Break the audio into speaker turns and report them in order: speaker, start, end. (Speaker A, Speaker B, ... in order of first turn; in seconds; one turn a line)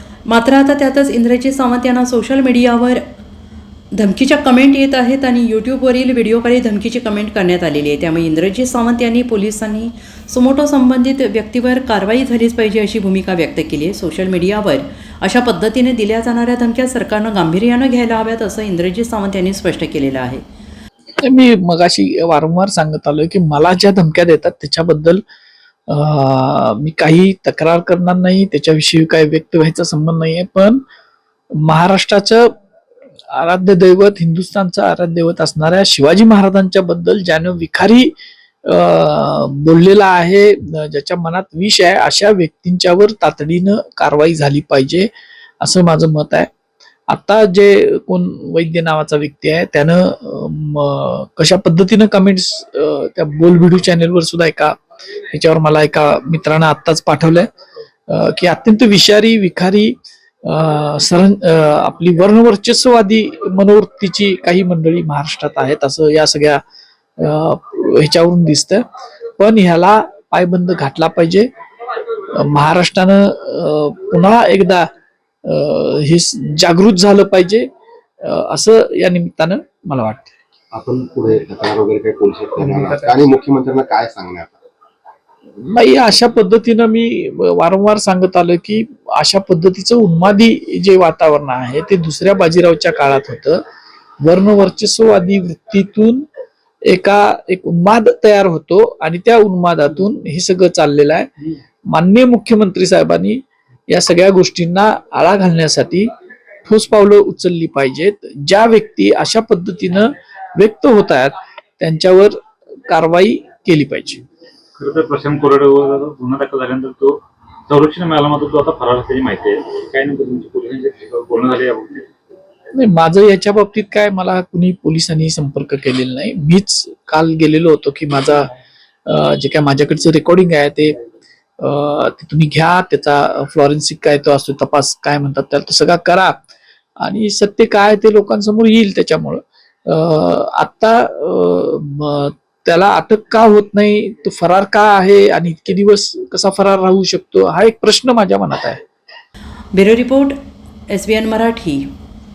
Speaker A: 0.3-3.0
Speaker A: 3.9-20.4
Speaker B: 21.2-25.2
Speaker B: 25.9-30.8
Speaker B: 31.5-32.5
Speaker B: 33.3-38.1
Speaker B: 38.6-45.1
Speaker B: 45.6-46.5
Speaker B: 47.1-54.8
Speaker B: 55.3-57.5
Speaker B: 58.1-66.6
Speaker B: 67.2-68.8
Speaker B: 69.4-71.5
Speaker B: 72.3-74.9
Speaker B: 75.4-77.7
Speaker B: 78.2-80.3
Speaker C: 80.7-84.6
Speaker B: 82.6-83.2
Speaker B: 85.6-93.6
Speaker B: 94.2-96.2
Speaker B: 96.8-101.3
Speaker B: 101.9-106.1
Speaker B: 106.6-112.3
Speaker B: 112.9-114.2
Speaker D: 114.8-122.1
Speaker B: 122.7-128.5
Speaker B: 129.1-130.9
Speaker B: 131.6-136.4
Speaker B: 137.0-148.8
Speaker A: 149.7-150.4
Speaker A: 150.9-151.9